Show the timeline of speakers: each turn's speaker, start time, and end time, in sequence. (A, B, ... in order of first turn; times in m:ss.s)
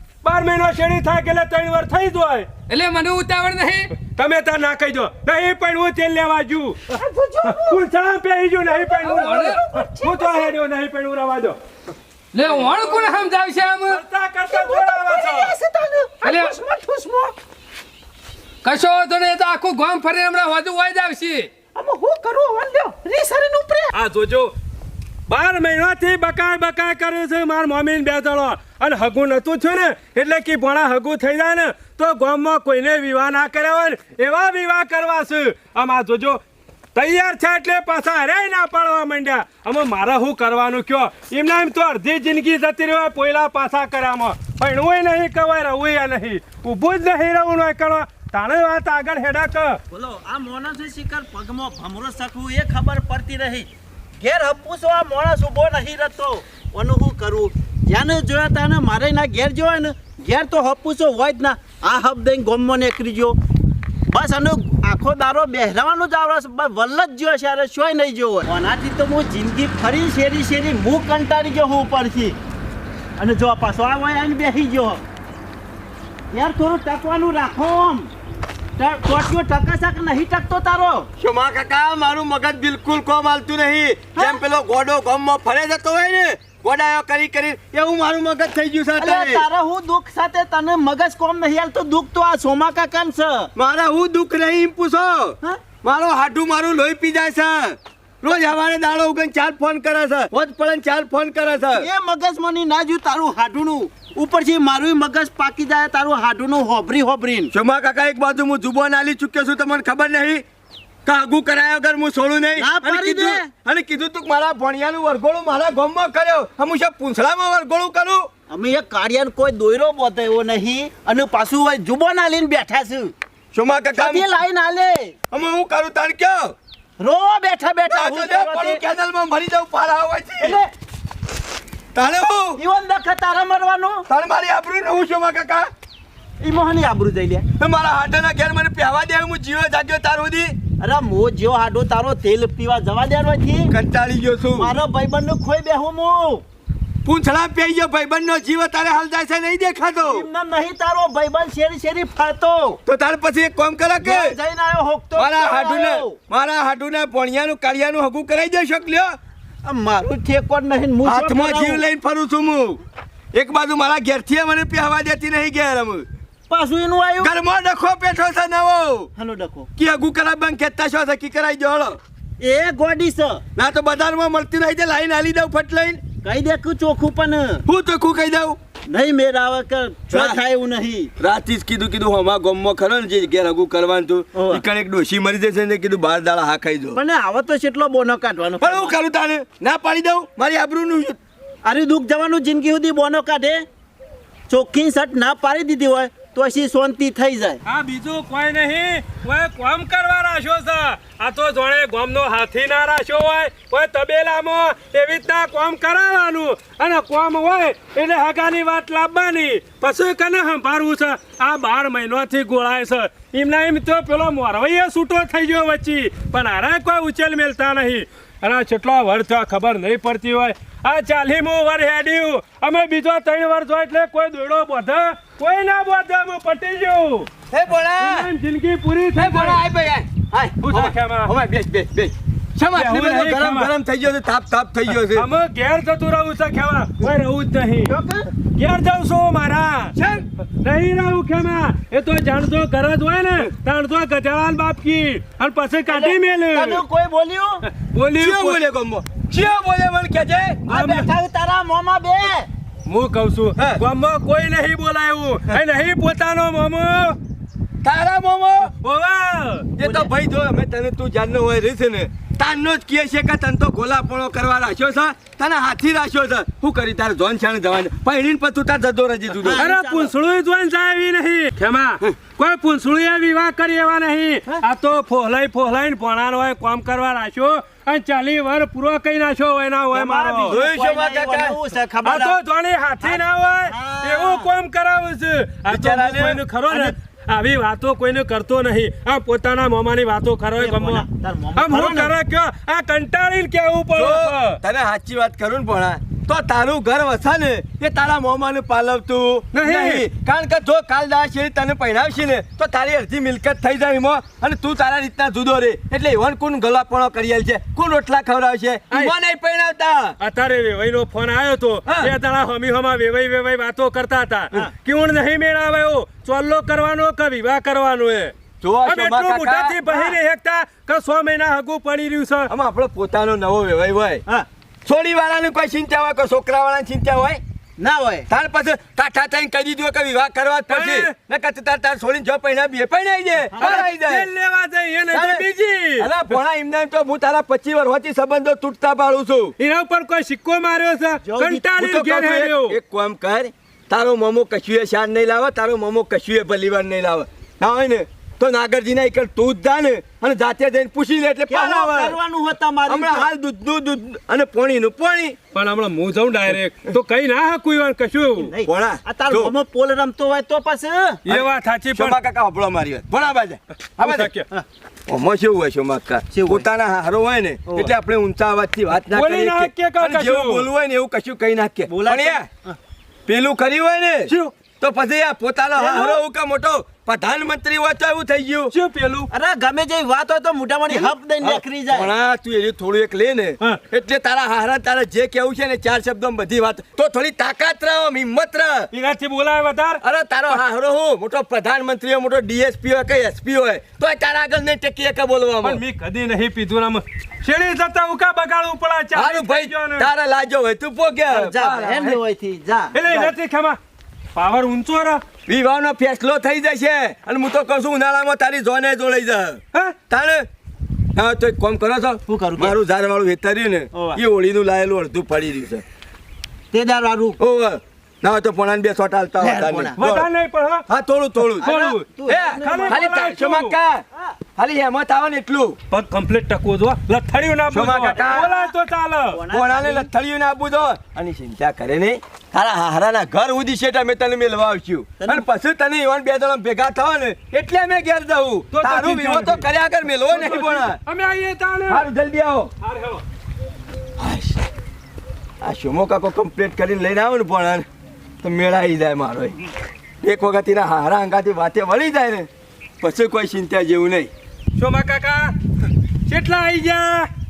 0:00.2-0:02.5 A
0:02.7-0:04.0 B
0:04.0-0:06.8 A
0:06.9-0:07.8 C
0:07.4-0:11.6 A
0:08.6-0:10.5 C
0:09.0-0:09.6 B
0:12.3-0:14.0 B
0:12.5-0:13.1 A
0:13.9-0:15.5 A
0:14.5-0:17.4 C
0:16.2-0:16.6 B
0:18.6-0:21.5 B
0:21.7-0:23.9 C
0:23.9-0:24.5 A
0:25.3-0:36.4 A
0:36.9-0:49.8 A
0:49.9-0:53.7 D
0:54.2-1:03.4 D
1:04.1-1:12.4 D
1:13.2-1:15.0 D
1:16.3-1:18.1 D
1:18.8-1:21.1 D
1:21.2-1:29.4 E
1:24.2-1:24.4 D
1:29.0-1:33.5 D
1:33.5-1:41.9 E
1:41.7-1:47.5 D
1:47.5-1:50.4 E
1:51.0-1:58.3 E
1:52.6-1:53.5 D
1:58.5-2:03.1 D
2:03.5-2:04.3 E
2:03.9-2:05.2 D
2:05.3-2:06.5 E
2:07.0-2:08.8 D
2:07.8-2:10.6 E
2:10.4-2:10.7 D
2:11.9-2:12.6 E
2:12.6-2:14.1 D
2:14.1-2:15.7 E
2:16.4-2:17.5 D
2:17.6-2:20.6 E
2:20.8-2:23.7 D
2:23.7-2:24.7 E
2:24.6-2:26.4 D
2:27.0-2:30.3 E
2:30.0-2:32.8 D
2:32.8-2:34.4 E
2:34.0-2:36.2 D
2:35.2-2:39.2 E
2:39.6-2:41.8 D
2:41.0-2:42.8 E
2:43.3-2:46.1 E
2:46.5-2:47.3 D
2:47.2-2:49.1 E
2:49.2-2:49.7 D
2:49.8-2:52.0 E
2:52.4-2:53.4 D
2:53.6-2:56.0 E
2:56.2-2:57.6 D
2:57.6-2:58.6 E
2:58.9-3:01.1 D
3:00.1-3:00.4 E
3:01.2-3:07.0 E
3:04.3-3:04.6 D
3:06.9-3:09.0 D
3:08.6-3:11.2 E
3:11.6-3:13.6 D
3:14.5-3:17.6 D
3:17.6-3:47.3 A
3:47.5-3:48.3 E
3:48.0-3:49.6 A
3:49.1-3:55.3 E
3:50.6-3:51.3 A
3:52.6-3:53.7 A
3:55.0-3:57.9 A
3:57.9-3:58.3 D
3:58.5-4:00.0 A
4:00.6-4:06.8 A
4:05.9-4:07.6 D
4:07.7-4:08.6 A
4:08.1-4:10.7 E
4:10.7-4:12.5 D
4:10.7-4:11.1 A
4:12.8-4:17.2 A
4:17.8-4:18.7 E
4:18.8-4:19.7 A
4:19.8-4:29.6 E
4:19.8-4:20.1 D
4:29.4-4:30.1 D
4:29.6-4:40.6 A
4:39.9-4:42.4 D
4:40.4-4:41.6 E
4:42.0-4:54.6 A
4:43.0-4:44.5 D
4:45.7-4:46.4 E
4:50.6-4:52.1 D
4:53.9-5:10.2 E
4:59.5-5:00.0 A
5:10.2-5:18.3 A
5:11.8-5:12.1 E
5:18.6-5:19.8 E
5:18.8-5:22.5 A
5:19.9-5:20.1 D
5:22.5-5:24.2 E
5:24.8-5:27.4 E
5:27.8-5:28.3 D
5:28.3-5:34.3 E
5:30.7-5:31.1 A
5:33.5-5:33.9 D
5:33.6-5:36.1 A
5:35.1-5:39.5 E
5:39.6-5:42.8 A
5:41.2-5:41.7 D
5:41.8-5:52.2 E
5:51.5-5:53.3 D
5:52.8-5:55.4 E
5:55.5-5:58.5 A
5:58.4-6:01.2 D
5:58.6-5:59.5 E
6:01.2-6:02.2 A
6:01.3-6:04.3 E
6:04.0-6:04.4 A
6:05.1-6:12.5 E
6:06.3-6:06.6 D
6:09.1-6:10.7 A
6:11.9-6:12.8 D
6:13.2-6:18.7 E
6:14.3-6:14.5 A
6:15.8-6:16.2 D
6:18.7-6:19.3 A
6:19.3-6:22.1 D
6:20.9-6:28.9 E
6:28.9-6:30.5 A
6:30.0-6:35.8 E
6:35.6-6:40.1 A
6:39.1-6:42.2 E
6:41.3-6:42.9 D
6:42.9-6:43.8 A
6:43.0-6:43.3 E
6:44.3-6:45.2 A
6:45.4-6:50.5 E
6:51.1-6:55.8 E
6:52.3-6:52.8 D
6:53.9-6:54.2 D
6:56.7-6:57.4 D
6:57.4-7:00.3 E
6:59.4-7:00.0 D
7:00.0-7:00.8 A
7:00.9-7:01.6 E
7:01.5-7:02.0 A
7:01.6-7:03.1 D
7:02.3-7:04.0 E
7:02.6-7:03.7 A
7:04.6-7:05.8 E
7:05.9-7:09.4 A
7:07.7-7:08.5 E
7:08.2-7:08.7 D
7:09.3-7:10.1 D
7:09.5-7:21.0 E
7:15.2-7:15.4 D
7:18.7-7:19.6 A
7:20.3-7:22.0 A
7:21.9-7:22.7 E
7:22.8-7:23.2 A
7:24.2-7:24.6 E
7:25.6-7:27.8 E
7:28.4-7:29.6 E
7:30.2-7:32.5 E
7:33.0-7:34.3 E
7:34.8-7:35.5 A
7:36.3-7:37.3 A